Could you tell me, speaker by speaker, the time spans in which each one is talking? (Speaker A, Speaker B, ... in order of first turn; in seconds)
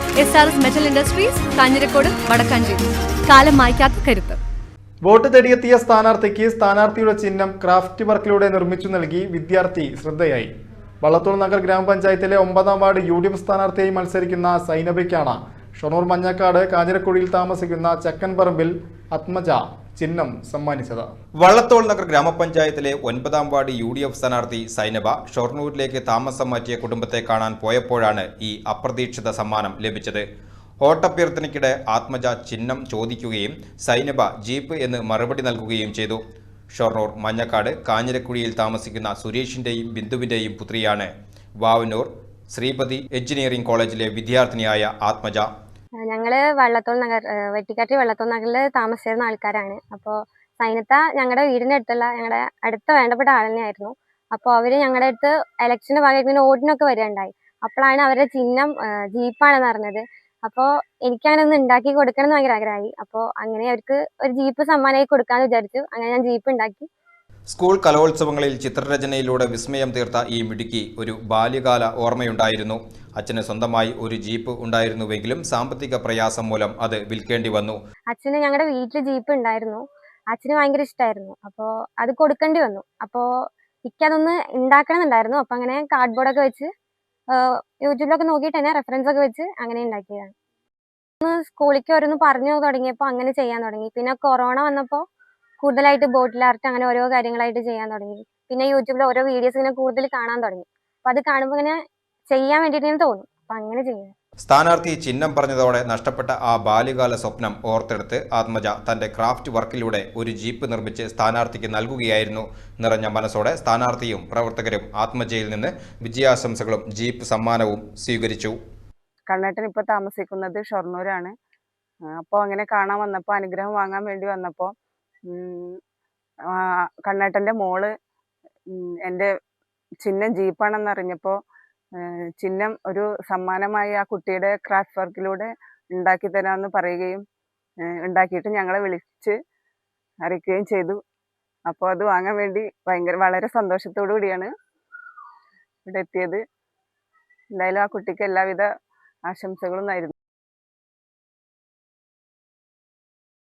Speaker A: 0.2-4.4
Speaker B: 5.0-10.5, 11.0-21.1
Speaker C: 21.4-30.2, 30.8-36.2, 36.7-41.1, 41.6-45.5, 67.5-77.8, 104.4-118.5
Speaker D: 46.1-66.9, 78.1-83.3, 83.9-86.7, 87.3-90.3, 91.2-95.0, 95.6-101.8, 102.3-104.1
Speaker E: 119.3-121.3, 122.1-124.7, 125.3-125.8, 126.5-127.9, 128.7-129.3, 130.0-131.4, 131.9-137.2, 137.8-139.4, 140.2-141.0, 141.7-144.5, 145.8-146.4, 147.5-148.7, 149.3-150.1